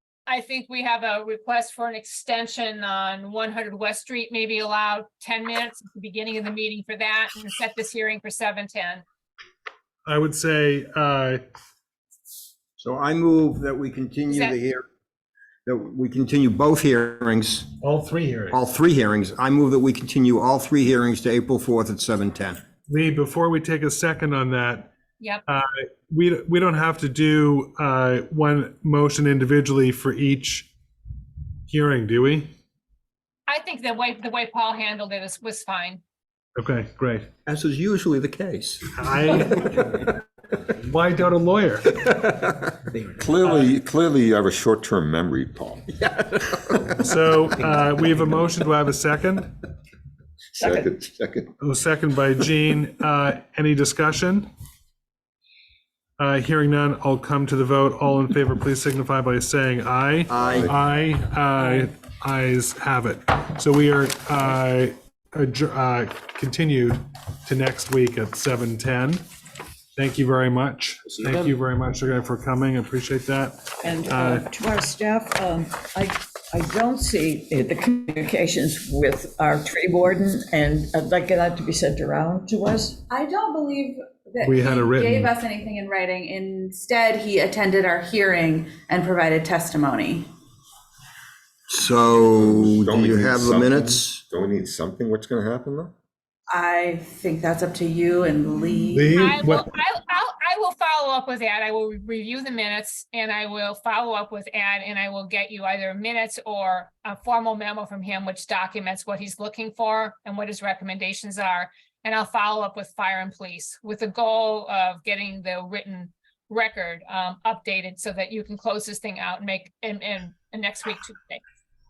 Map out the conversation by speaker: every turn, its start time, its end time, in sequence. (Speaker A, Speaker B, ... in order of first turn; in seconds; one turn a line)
Speaker A: 0.3-9.0
Speaker B: 10.1-11.4
Speaker C: 12.8-14.8
Speaker A: 14.3-14.6
Speaker C: 15.7-17.7
Speaker B: 17.8-18.6
Speaker C: 18.5-22.6
Speaker B: 22.9-24.9
Speaker B: 25.5-30.7
Speaker B: 31.7-32.5
Speaker A: 33.5-36.0
Speaker B: 36.6-37.3
Speaker C: 37.5-38.9
Speaker B: 39.0-40.0
Speaker B: 40.8-42.0
Speaker C: 42.0-42.5
Speaker D: 43.0-46.0
Speaker B: 47.0-49.5
Speaker E: 50.5-51.0
Speaker D: 50.6-51.5
Speaker B: 51.6-54.5
Speaker B: 56.2-69.2
Speaker C: 60.3-60.7
Speaker D: 60.5-60.7
Speaker B: 70.0-74.4
Speaker E: 73.8-83.0
Speaker F: 83.1-90.3
Speaker B: 84.4-85.4
Speaker C: 91.7-94.2
Speaker D: 92.3-95.9
Speaker F: 96.5-99.2
Speaker B: 98.9-99.7
Speaker A: 99.2-121.4